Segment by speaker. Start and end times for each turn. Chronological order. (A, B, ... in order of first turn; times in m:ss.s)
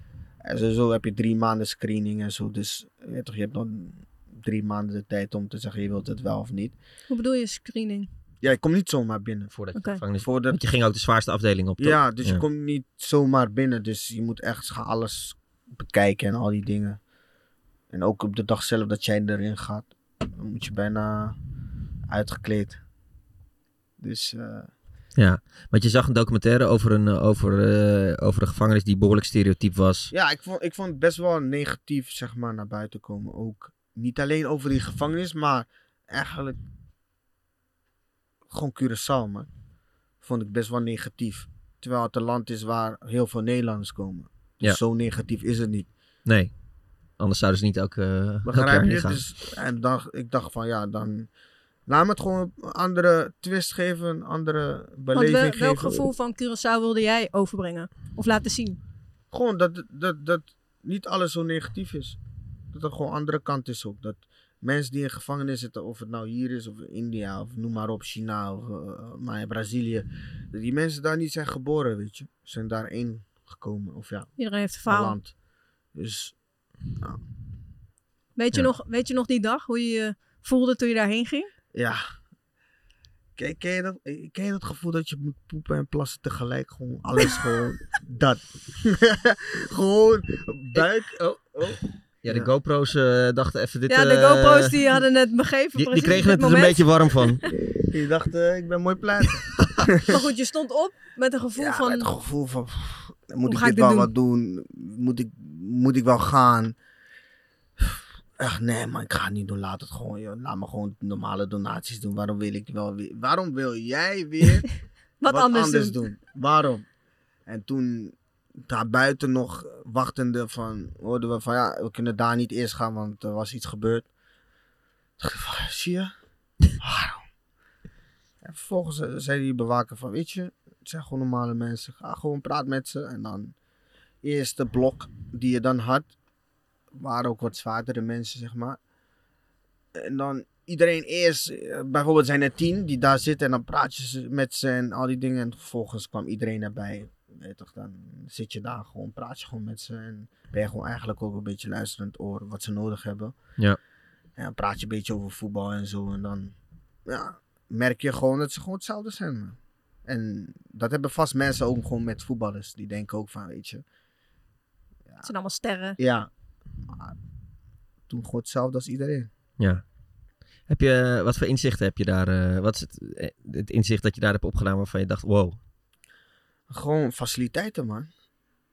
0:00.4-0:06.8 A
0:07.1-0:08.1 B
0:08.4-0:09.5 A
0:09.5-0:12.4 C
0:09.7-0:10.0 B
0:10.2-0:10.6 A
0:11.8-0:17.0 A
0:17.9-0:21.4 A
0:22.1-0:22.8 A
0:24.0-0:24.7 A
0:25.2-0:30.1 C
0:30.1-0:36.6 A
0:38.5-0:39.5 A
0:40.2-0:45.9 A
0:46.2-0:46.5 C
0:47.2-0:49.2 C
0:48.4-0:51.3 A
0:51.9-0:56.0 A
0:55.1-0:58.8 B
0:59.3-1:02.2 A
1:02.7-1:14.3 A
1:14.4-1:15.2 B
1:14.8-1:15.3 A
1:15.9-1:16.4 A
1:18.4-1:21.5 B
1:21.7-1:22.0 A
1:23.4-1:32.5 A
1:30.7-1:34.8 C
1:33.9-1:36.9 B
1:35.8-1:37.4 C
1:37.9-1:40.0 A
1:40.0-1:42.1 B
1:41.5-1:46.8 A
1:43.4-1:44.1 B
1:47.8-1:54.7 A
1:55.2-1:56.0 B
1:55.3-1:56.8 A
1:57.4-2:04.1 A
2:05.2-2:06.1 A
2:06.8-2:07.3 A
2:08.4-2:13.5 A
2:14.2-2:16.1 A
2:16.9-2:18.8 A
2:19.9-2:33.3 A
2:34.4-2:36.5 A
2:37.1-2:43.8 A
2:45.2-2:46.0 B
2:46.0-2:46.3 A
2:46.8-2:47.1 A
2:48.1-2:49.3 A
2:50.7-2:55.6 C
2:56.7-2:58.1 A